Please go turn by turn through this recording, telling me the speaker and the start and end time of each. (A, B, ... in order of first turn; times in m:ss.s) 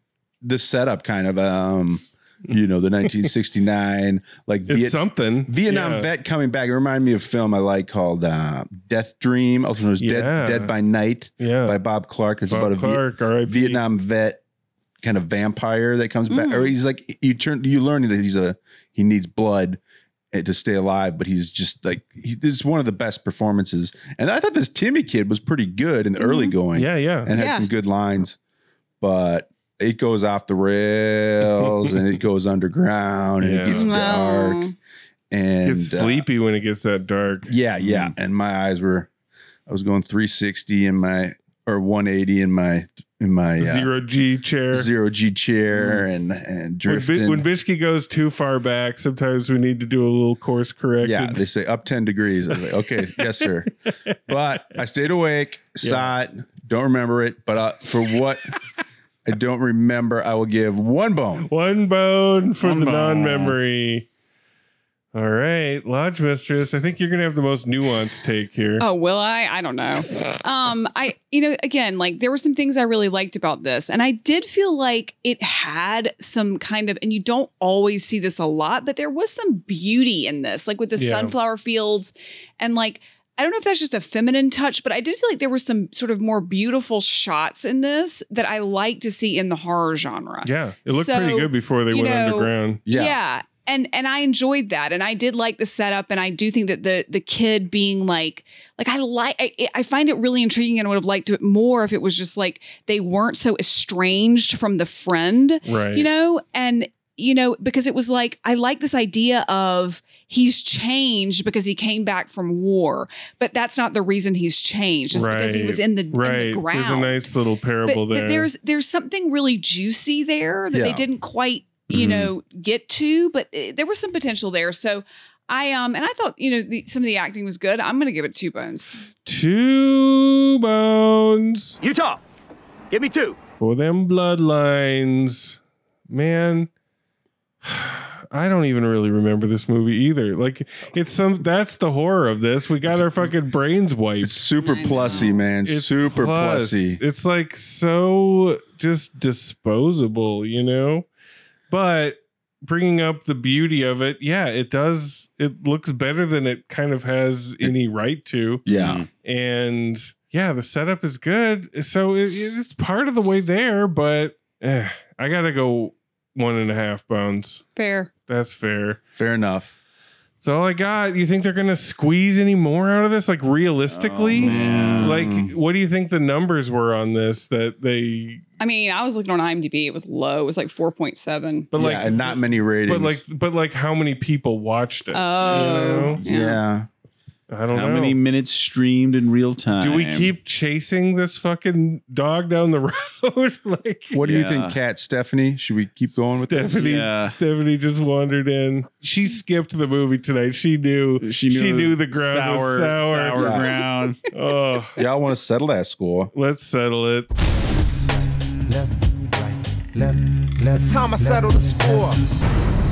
0:00.4-0:14.4 A
0:04.7-0:06.1 B
0:10.0-0:10.7 B
0:11.4-0:11.8 B
0:12.5-0:13.8 B
0:15.0-0:19.8 A
0:16.3-0:16.7 C
0:20.3-0:28.4 A
0:26.2-0:26.5 C
0:26.7-0:27.3 B
0:27.3-0:27.7 C
0:29.0-0:34.6 A
0:31.5-0:32.0 B
0:33.4-0:33.9 B
0:33.7-0:34.7 C
0:35.3-0:36.2 A
0:35.6-0:37.5 B
0:37.5-0:39.1 A
0:37.8-0:38.1 D
0:39.7-0:43.9 A
0:43.6-0:44.9 B
0:44.7-0:47.4 A
0:45.8-0:46.0 B
0:46.8-0:51.4 B
0:51.0-0:53.7 A
0:53.2-0:54.2 B
0:54.3-0:58.5 A
0:55.8-0:56.1 B
0:59.2-1:01.5 A
1:01.4-1:04.1 B
1:02.6-1:03.6 D
1:05.1-1:08.8 B
1:08.8-1:57.3 C
1:21.0-1:21.3 B
1:30.4-1:32.8 B
1:32.9-1:33.2 A
1:45.6-1:46.1 B
1:55.1-1:58.5 B
1:57.8-2:09.0 C
2:00.7-2:01.0 A
2:01.9-2:02.3 D
2:09.2-2:11.8 B
2:11.8-2:12.2 E
2:12.9-2:13.4 E
2:13.6-2:16.7 B
2:17.6-2:24.4 B
2:24.2-2:27.0 A
2:24.6-2:25.4 C
2:25.6-2:31.1 B
2:31.7-2:47.6 B
2:38.6-2:39.0 A
2:38.7-2:39.1 D
2:47.8-2:48.1 C
2:48.3-2:49.0 B
2:49.2-2:49.7 A
2:50.4-2:58.4 B
2:53.9-2:55.2 D
2:54.4-2:55.5 A
2:58.6-3:01.7 C
3:01.7-3:06.2 B
3:01.7-3:03.2 A
3:05.1-3:06.6 C
3:06.2-3:06.9 A
3:07.5-3:08.2 B
3:07.7-3:10.3 D
3:09.8-3:14.2 B
3:14.1-3:16.8 A
3:14.2-3:14.8 D
3:16.1-3:23.6 B
3:16.7-3:17.3 D
3:21.2-3:24.2 D
3:23.3-3:23.7 A
3:24.3-3:25.0 B
3:25.0-3:26.3 A
3:26.3-3:27.3 B
3:29.9-3:32.2 E